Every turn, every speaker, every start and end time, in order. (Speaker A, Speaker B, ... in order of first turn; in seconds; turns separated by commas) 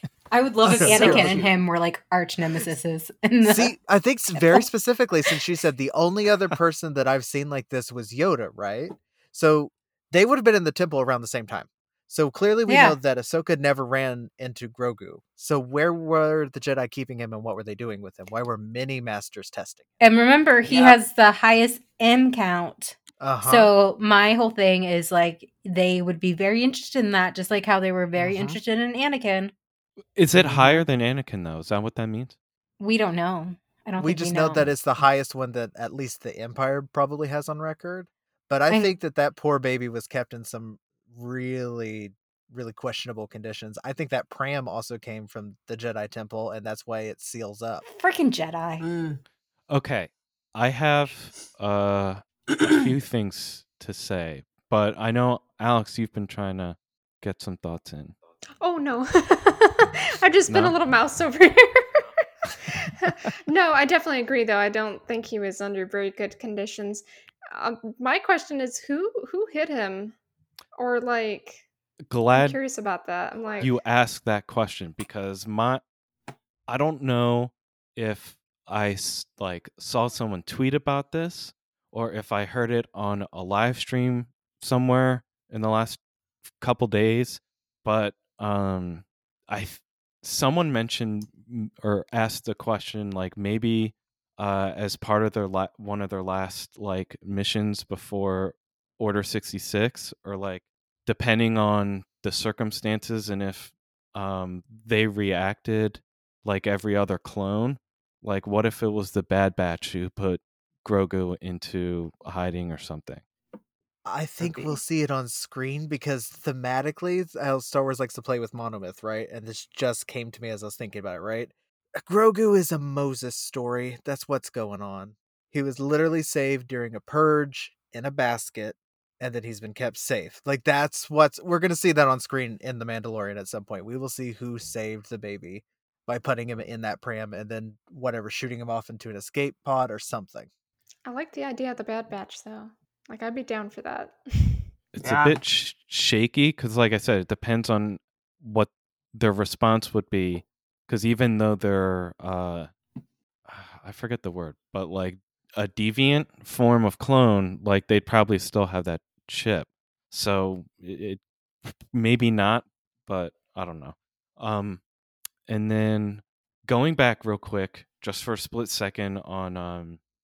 Speaker A: 0.3-3.8, Speaker B: 0.6-1.4, Speaker C: 0.8-1.5, Speaker B: 3.4-19.9, Speaker A: 4.3-4.7, Speaker A: 12.7-13.0, Speaker A: 20.0-29.5, Speaker C: 20.7-21.0, Speaker B: 23.2-23.7, Speaker B: 28.2-28.6, Speaker D: 30.1-32.4, Speaker B: 30.4-30.8, Speaker A: 32.8-34.7, Speaker B: 34.0-47.9, Speaker A: 47.9-48.9, Speaker C: 48.8-49.2, Speaker D: 49.7-58.1, Speaker E: 58.6-70.2, Speaker D: 60.5-60.8, Speaker E: 70.8-71.7, Speaker D: 72.1-72.6, Speaker E: 72.3-73.8, Speaker D: 73.6-75.8, Speaker D: 76.7-86.0, Speaker D: 86.6-113.2, Speaker B: 114.0-140.5, Speaker C: 114.4-114.8, Speaker E: 141.1-144.7, Speaker D: 144.9-152.7, Speaker C: 145.0-145.4, Speaker D: 153.5-164.8, Speaker D: 165.5-170.0